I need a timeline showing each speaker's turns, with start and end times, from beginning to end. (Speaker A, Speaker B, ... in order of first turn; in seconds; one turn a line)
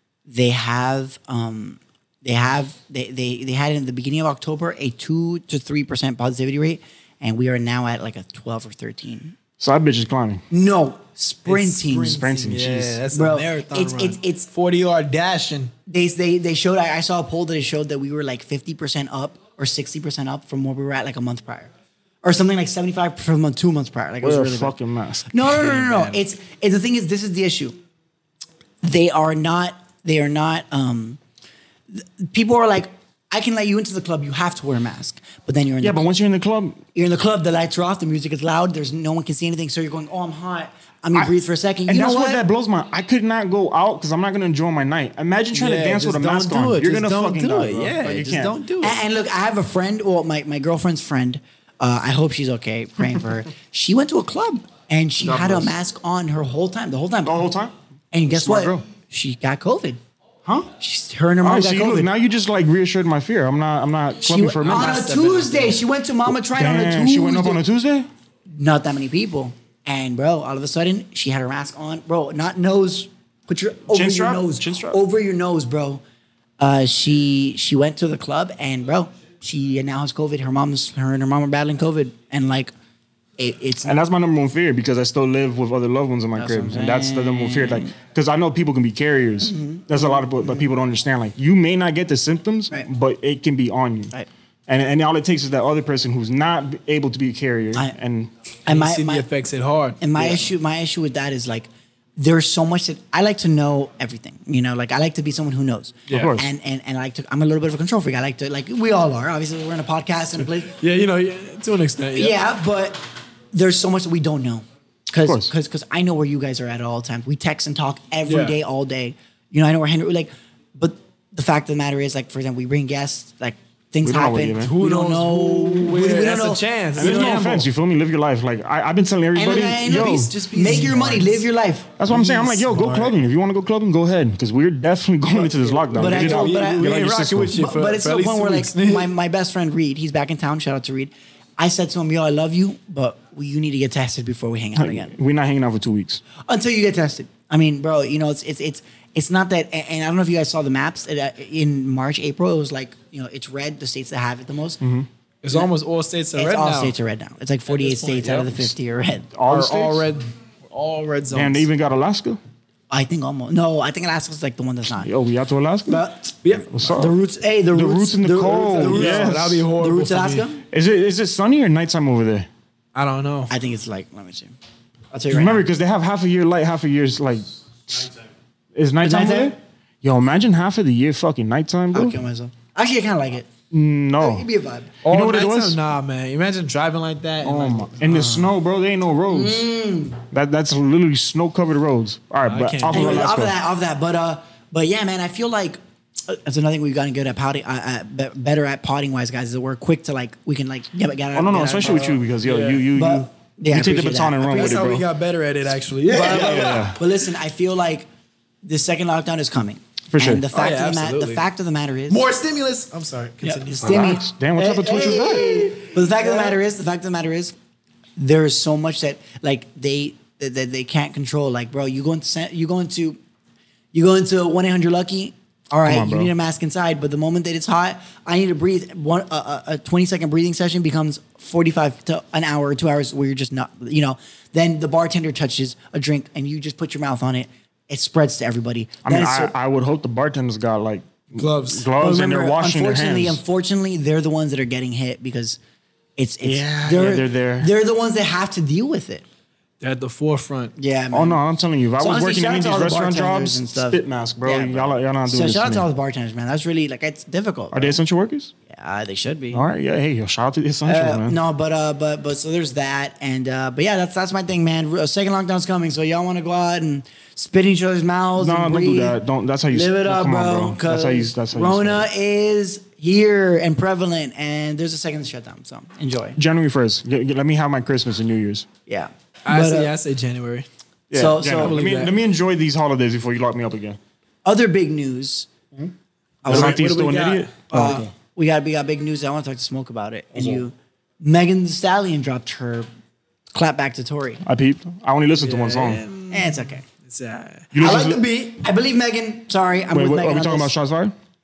Speaker A: 0.3-9.4
Speaker B: 9.6-10.4
Speaker A: 10.5-12.2
Speaker C: 11.4-15.7
Speaker B: 12.1-13.0
Speaker A: 13.1-14.5
Speaker A: 15.9-21.7
Speaker A: 22.2-24.7
Speaker B: 24.2-25.7
Speaker A: 25.3-27.8
Speaker C: 25.6-26.2
Speaker A: 28.8-31.2
Speaker A: 31.9-36.0
Speaker B: 35.8-36.8
Speaker A: 36.9-42.4
Speaker B: 41.9-48.6
Speaker C: 45.5-49.0
Speaker A: 48.8-57.4
Speaker B: 55.2-55.7
Speaker B: 57.2-57.7
Speaker A: 58.1-60.0
Speaker B: 58.3-58.8
Speaker A: 60.8-62.1
Speaker B: 61.4-65.0
Speaker A: 64.2-67.6
Speaker C: 64.6-65.8
Speaker B: 66.3-68.1
Speaker A: 68.5-76.0
Speaker B: 73.9-75.0
Speaker A: 76.6-82.7
Speaker A: 83.4-84.0
Speaker B: 83.8-94.1
Speaker A: 86.3-87.9
Speaker A: 89.4-90.6
Speaker B: 94.7-98.3
Speaker A: 98.7-99.2
Speaker C: 98.7-100.5
Speaker A: 100.0-110.7
Speaker C: 106.1-106.3
Speaker B: 106.1-106.5
Speaker C: 110.8-112.4
Speaker A: 112.2-127.3
Speaker B: 115.2-115.5
Speaker C: 118.3-118.6
Speaker B: 124.0-124.7
Speaker C: 124.6-127.7
Speaker B: 127.0-131.0
Speaker A: 129.3-131.9
Speaker C: 130.0-131.4
Speaker B: 132.0-137.5
Speaker C: 132.1-133.1
Speaker C: 135.4-139.1
Speaker A: 136.0-137.0
Speaker A: 137.5-145.1
Speaker B: 144.8-146.2
Speaker A: 146.5-154.8
Speaker B: 154.8-155.1
Speaker C: 155.4-157.0
Speaker A: 156.3-159.3
Speaker C: 157.7-158.7
Speaker B: 159.3-160.1
Speaker C: 159.5-161.7
Speaker B: 161.3-162.4
Speaker A: 162.9-165.1
Speaker B: 165.0-166.0
Speaker A: 165.9-170.6
Speaker C: 166.4-166.7
Speaker B: 166.7-167.2
Speaker B: 167.7-169.7
Speaker C: 168.6-170.5
Speaker B: 170.7-172.5
Speaker C: 172.9-173.5
Speaker A: 173.5-174.5
Speaker A: 175.1-175.6
Speaker B: 175.3-178.1
Speaker B: 178.8-182.2
Speaker A: 179.0-179.5
Speaker A: 181.9-183.5
Speaker B: 183.7-184.5
Speaker A: 184.2-184.9
Speaker C: 185.0-188.5
Speaker B: 185.1-185.8
Speaker B: 187.4-189.6
Speaker A: 189.3-190.2
Speaker B: 190.3-193.6
Speaker C: 192.5-193.3
Speaker A: 192.9-202.2
Speaker B: 201.3-205.1
Speaker C: 201.8-202.8
Speaker A: 202.9-204.9
Speaker C: 204.4-206.9
Speaker A: 206.1-208.1
Speaker B: 206.2-207.0
Speaker A: 208.6-212.2
Speaker B: 210.1-210.5
Speaker C: 210.5-211.4
Speaker C: 212.1-214.2
Speaker A: 213.4-217.5
Speaker B: 213.8-215.7
Speaker C: 215.7-216.5
Speaker A: 218.2-223.2
Speaker A: 223.9-239.5
Speaker B: 225.8-226.3
Speaker B: 239.0-243.4
Speaker C: 241.3-241.8
Speaker A: 242.0-245.6
Speaker A: 246.2-249.2
Speaker B: 246.4-247.7
Speaker C: 249.8-250.7
Speaker A: 250.8-251.4
Speaker B: 251.1-255.8
Speaker A: 252.0-258.0
Speaker B: 257.7-258.5
Speaker A: 258.7-259.7
Speaker B: 259.5-261.4
Speaker A: 260.9-269.2
Speaker B: 268.4-272.1
Speaker A: 269.7-276.4
Speaker B: 276.4-278.7
Speaker A: 278.9-279.9
Speaker C: 279.5-280.6
Speaker B: 281.1-284.0
Speaker A: 281.1-281.8
Speaker C: 281.4-282.1
Speaker A: 284.4-285.5
Speaker A: 286.4-286.9
Speaker C: 286.4-287.5
Speaker B: 286.5-288.1
Speaker A: 287.7-292.9
Speaker B: 290.4-290.6
Speaker A: 293.5-294.4
Speaker B: 294.4-296.0
Speaker C: 295.4-297.7
Speaker A: 296.3-296.8
Speaker B: 297.7-298.2
Speaker A: 297.8-300.7
Speaker B: 299.9-301.1